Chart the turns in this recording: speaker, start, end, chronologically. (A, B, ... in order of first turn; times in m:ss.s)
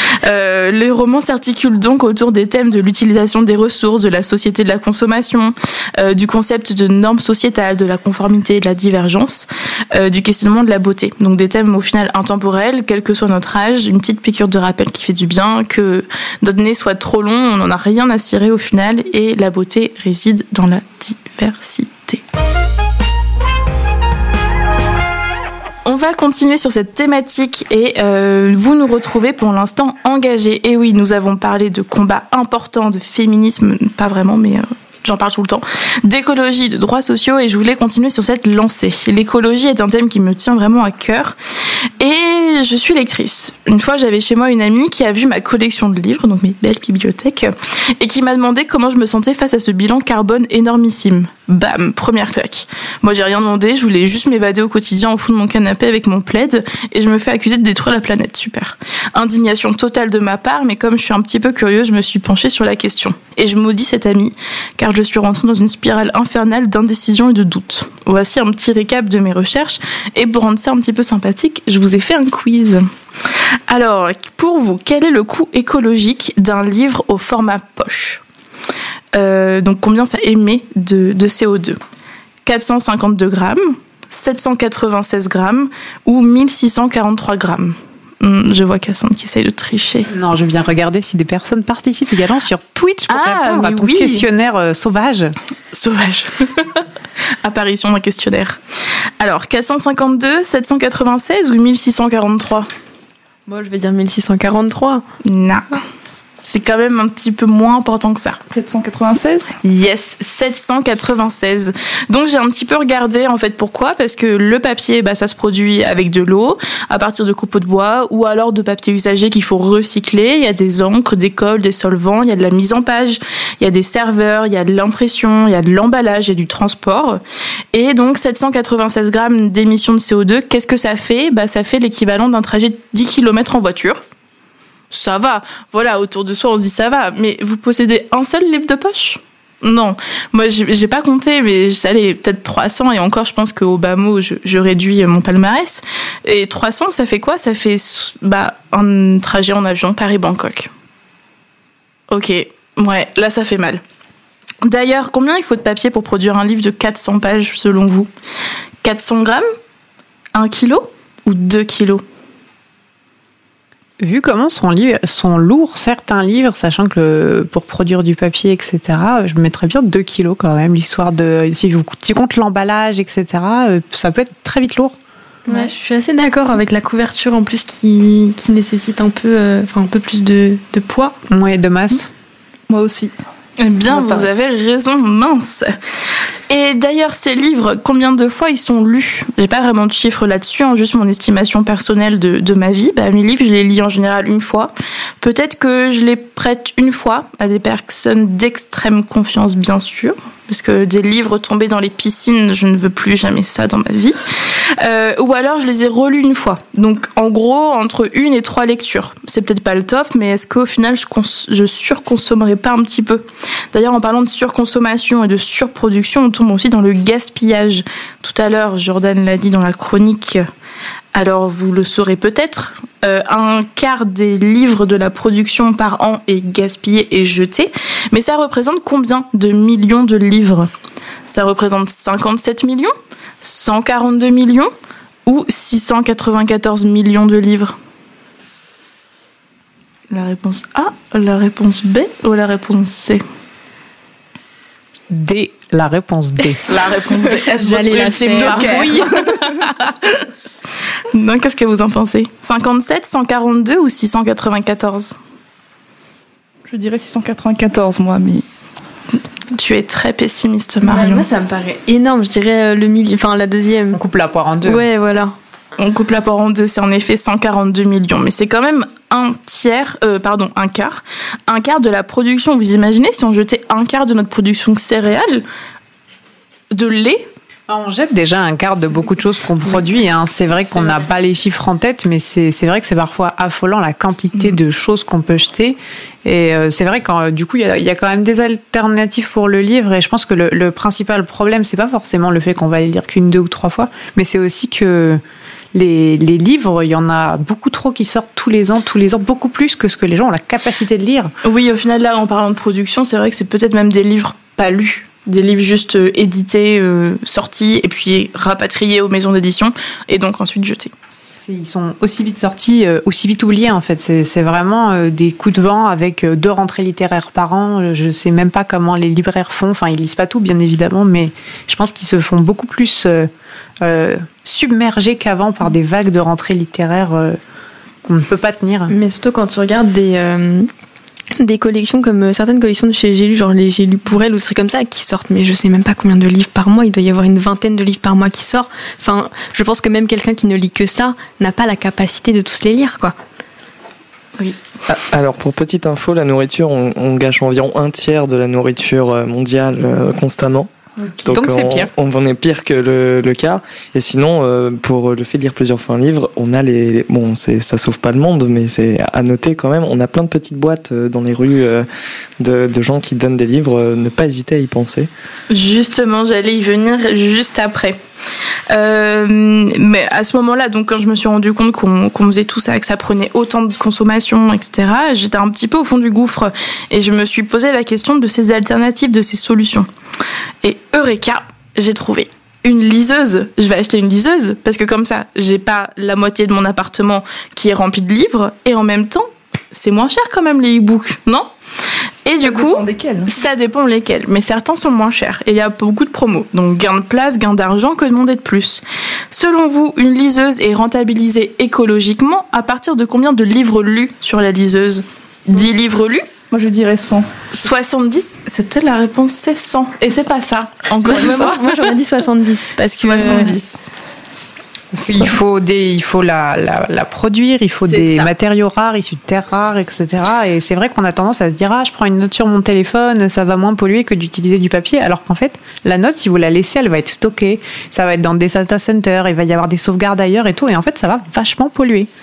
0:00.2-0:22.2 A
0:25.8-0:41.4 A
0:42.0-1:12.9 A
1:13.7-1:18.2 A
1:19.1-1:21.8 A
1:22.4-1:30.1 A
1:30.1-1:35.3 B
1:33.1-1:34.3 A
1:35.7-1:36.8 A
1:37.4-1:38.6 A
1:39.2-1:42.7 A
1:43.5-1:45.0 C
1:45.2-1:45.8 A
1:46.4-1:48.4 A
1:48.5-1:49.6 D
1:49.6-2:07.2 A
2:07.7-2:14.0 A
2:14.9-2:30.7 A
2:32.1-2:33.8 A
2:34.6-2:38.1 A
2:38.8-2:39.5 A
2:40.3-2:42.0 A
2:44.0-2:55.0 B
2:55.5-3:01.2 C
3:01.3-3:02.1 B
3:02.7-3:03.1 D
3:03.6-3:05.8 A
3:03.9-3:04.3 D
3:06.5-3:40.5 A
3:41.1-3:50.7 A
3:51.3-3:54.7 A
3:55.3-3:57.8 A
4:00.1-4:03.2 A
4:05.1-4:06.6 B
4:06.7-4:10.2 A
4:07.3-4:09.1 C
4:08.5-4:09.1 D
4:11.1-4:15.2 A
4:16.7-4:18.4 D
4:19.5-4:21.2 A
4:20.8-4:24.0 C
4:23.9-4:24.9 B
4:24.6-4:25.3 C
4:25.8-4:35.4 A
4:36.7-4:37.3 A
4:37.7-4:55.2 B
4:55.7-5:01.3 B
5:01.4-5:10.9 A
5:11.4-5:23.3 B
5:23.8-5:27.4 B
5:28.0-5:28.9 B
5:28.9-5:30.7 C
5:31.4-5:43.2 C
5:44.9-6:01.9 E
5:51.3-5:51.9 B
6:02.4-6:05.1 E
6:05.5-6:08.0 A
6:08.7-6:19.9 A
6:20.6-6:31.5 A
6:32.2-6:46.2 A
6:32.4-6:33.3 D
6:46.5-6:47.3 D
6:47.5-6:51.9 A
6:51.0-6:53.5 C
6:52.8-6:53.8 A
6:53.2-6:53.5 D
6:54.9-7:12.1 B
6:57.9-6:58.3 A